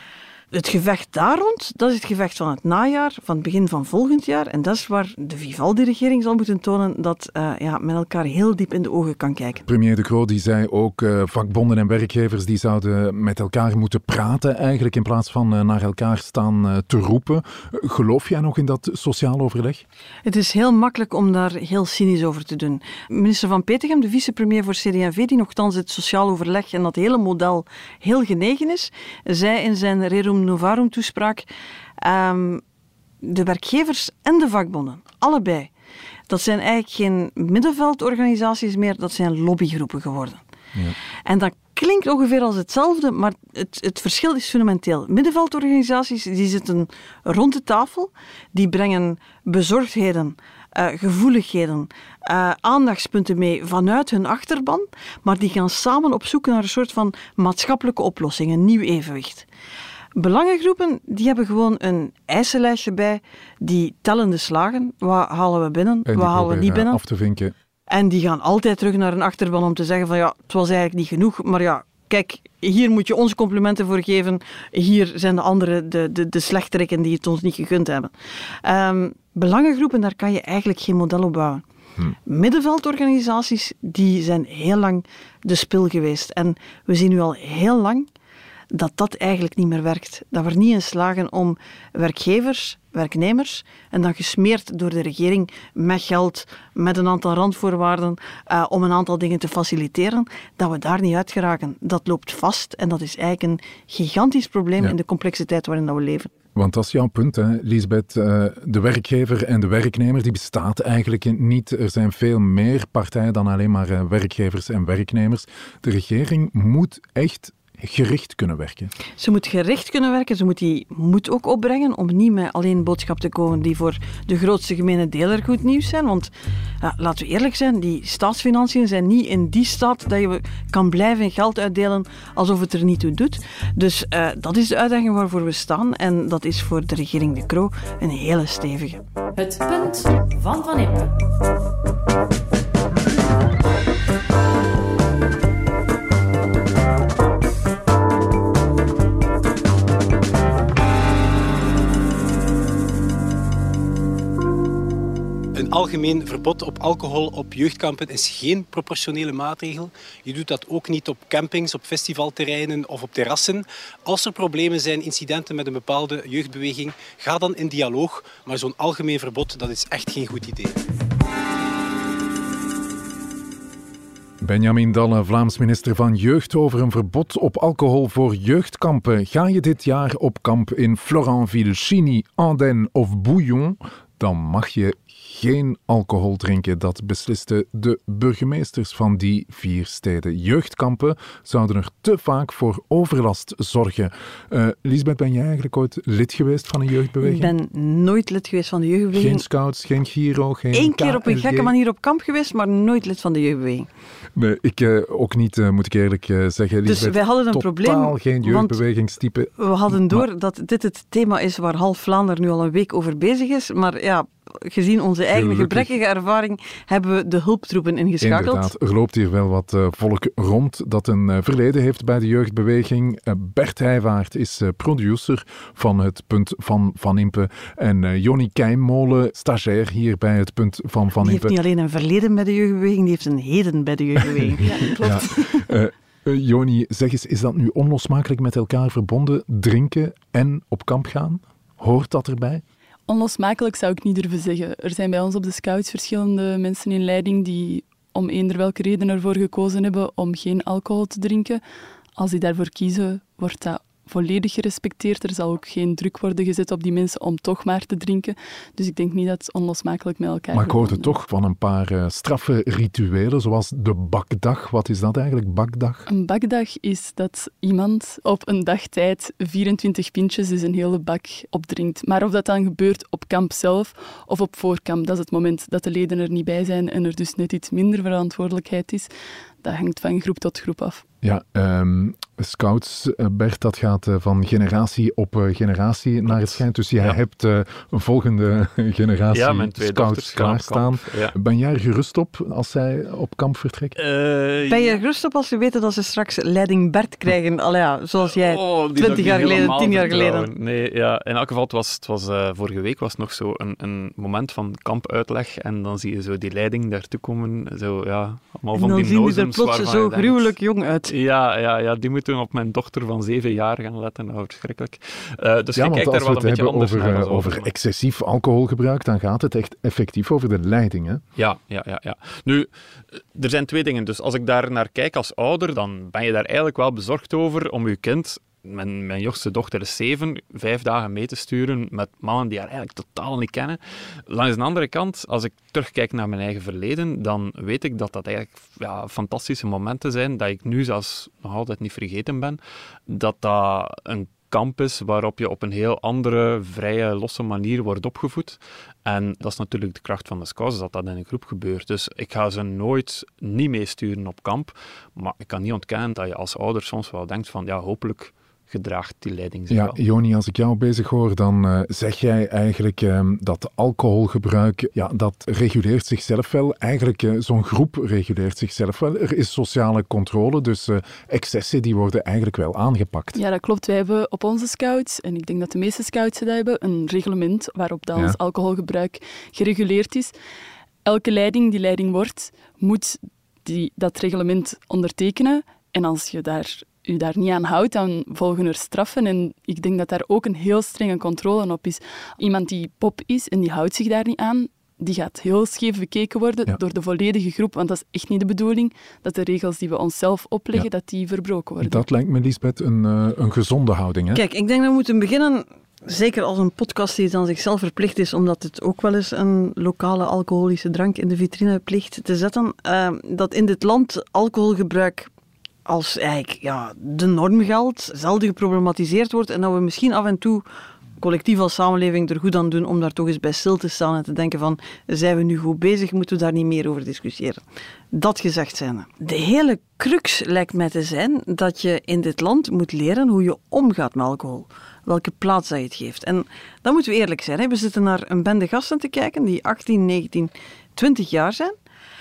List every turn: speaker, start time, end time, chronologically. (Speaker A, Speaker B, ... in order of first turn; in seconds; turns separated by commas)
Speaker A: 0.5-9.6, Speaker B: 9.6-19.8, Speaker A: 20.2-31.4, Speaker A: 32.0-32.6, Speaker A: 33.2-35.7, Speaker A: 36.3-40.4, Speaker A: 41.2-59.5, Speaker A: 60.1-67.0, Speaker B: 66.0-67.5, Speaker A: 67.9-78.1, Speaker A: 78.6-81.6, Speaker A: 82.2-88.1, Speaker A: 88.7-106.3, Speaker B: 106.5-118.9, Speaker A: 119.2-126.3, Speaker A: 126.8-139.0, Speaker C: 139.3-141.1, Speaker D: 155.5-170.8, Speaker B: 174.4-197.5, Speaker A: 197.2-199.4, Speaker B: 199.1-201.7, Speaker A: 200.7-203.9, Speaker B: 204.3-210.2, Speaker A: 206.9-208.8, Speaker A: 209.6-218.7, Speaker B: 215.3-215.9, Speaker B: 218.2-231.6, Speaker A: 231.2-234.8, Speaker C: 234.7-235.2, Speaker B: 235.0-242.6, Speaker E: 243.1-251.6, Speaker E: 252.2-261.1, Speaker B: 260.5-266.0, Speaker E: 266.1-279.1, Speaker E: 279.6-281.0, Speaker B: 281.2-293.9, Speaker F: 286.3-287.2, Speaker F: 289.3-291.3, Speaker F: 294.0-295.0, Speaker A: 294.7-300.5, Speaker F: 298.3-310.5, Speaker A: 308.7-311.1, Speaker F: 311.1-317.7, Speaker B: 315.8-321.2, Speaker F: 321.4-360.0, Speaker B: 359.7-373.4, Speaker E: 373.3-380.3, Speaker E: 381.0-402.0, Speaker B: 401.8-404.4, Speaker A: 404.3-415.3, Speaker A: 415.9-420.6, Speaker A: 421.2-441.7